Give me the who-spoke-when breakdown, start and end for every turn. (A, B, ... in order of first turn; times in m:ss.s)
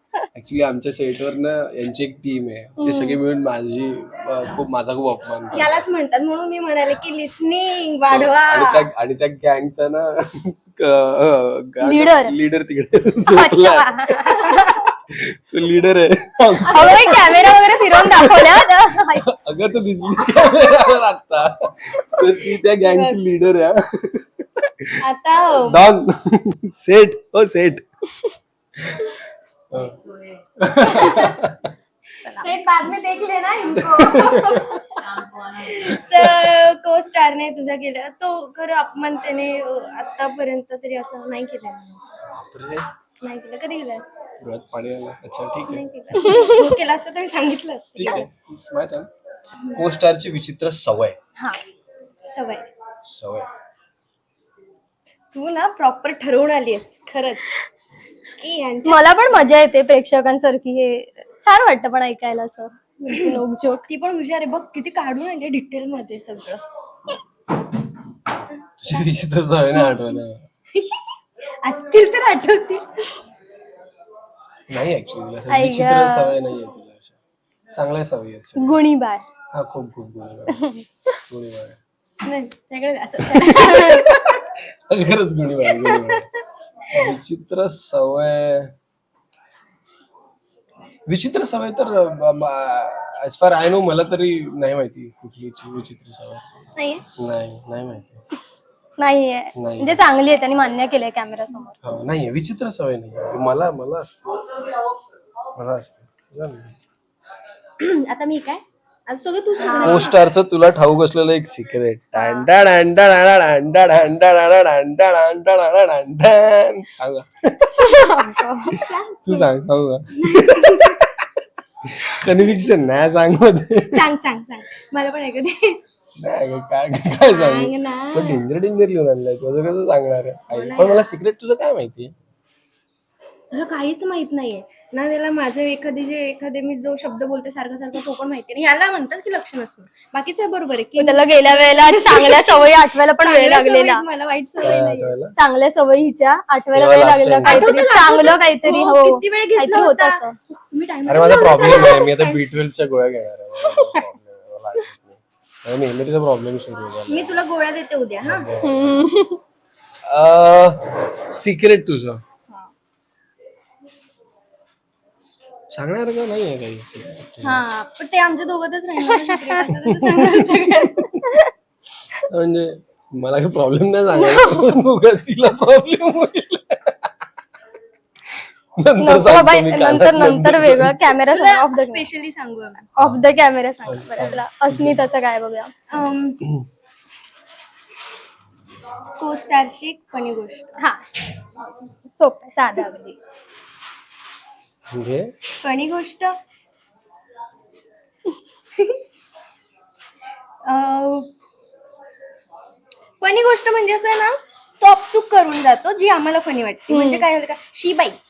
0:00.3-0:05.8 A
0:02.8-0:03.2 B
0:05.5-0:08.9 C
0:08.1-0:14.2 A
0:11.8-0:12.3 B
0:13.3-0:14.8 B
0:15.1-0:18.6 A
0:16.6-0:17.7 C
0:16.7-0:19.2 B
0:19.2-0:25.0 A
0:20.2-0:20.9 C
0:22.8-0:23.2 C
0:25.0-0:25.8 C
0:25.7-0:27.8 A
0:28.8-0:29.2 A
0:29.7-0:30.0 A
0:30.6-0:31.7 A
0:30.8-0:31.4 C
0:32.2-0:32.5 B
0:32.3-0:35.0 C
0:33.8-0:34.8 A
0:35.5-0:42.0 C
0:35.9-0:36.5 A
0:42.3-0:42.8 A
0:43.2-0:44.2 C
0:44.4-0:46.3 A
0:45.7-0:48.3 C
0:46.1-0:46.7 B
0:47.9-0:49.1 A
0:49.7-0:51.2 A
0:52.2-0:52.7 C
0:53.0-0:53.5 A
0:55.3-0:57.6 C
0:58.4-0:59.5 C
0:58.8-1:03.8 B
1:03.1-1:06.6 C
1:08.8-1:10.4 A
1:09.7-1:10.2 C
1:10.7-1:11.1 C
1:11.6-1:13.2 C
1:14.7-1:17.2 A
1:15.5-1:16.3 B
1:17.7-1:18.8 A
1:18.6-1:19.2 B
1:19.5-1:20.7 A
1:20.5-1:20.8 B
1:21.3-1:21.8 A
1:22.2-1:24.4 C
1:23.5-1:24.0 B
1:23.5-1:23.8 A
1:24.9-1:26.3 A
1:25.6-1:26.4 C
1:26.9-1:28.7 A
1:31.1-1:36.4 A
1:36.8-1:37.0 C
1:37.2-1:38.2 A
1:39.0-1:41.8 B
1:39.6-1:40.0 A
1:41.8-1:44.5 A
1:45.6-1:46.7 A
1:47.8-1:50.2 C
1:49.6-1:50.1 B
1:49.8-1:58.1 A
1:52.1-1:52.5 C
1:57.8-1:58.8 B
1:58.7-2:01.1 A
1:58.8-1:59.5 C
2:00.1-2:01.0 C
2:01.9-2:04.1 A
2:03.9-2:05.8 C
2:06.2-2:12.1 A
2:07.3-2:08.4 C
2:10.5-2:11.1 C
2:13.5-2:25.2 C
2:21.0-2:24.0 B
2:24.6-2:25.4 A
2:25.4-2:30.4 B
2:26.7-2:27.7 A
2:27.4-2:32.5 C
2:31.0-2:37.4 A
2:37.1-2:38.5 C
2:38.2-2:39.1 A
2:38.6-2:39.4 B
2:40.0-2:42.2 A
2:45.7-2:47.6 A
2:47.4-2:51.1 C
2:49.0-2:49.6 B
2:49.8-2:51.2 A
2:52.2-2:57.1 A
2:54.1-2:54.7 B
2:58.8-3:01.0 A
2:59.0-3:02.1 B
3:01.1-3:02.9 C
3:03.0-3:05.7 B
3:03.0-3:05.1 A
3:05.9-3:06.4 C
3:09.2-3:10.8 C
3:12.2-3:13.1 B
3:14.9-3:15.3 A
3:15.6-3:16.3 C
3:20.6-3:21.3 C
3:23.2-3:28.2 C
3:26.9-3:27.3 B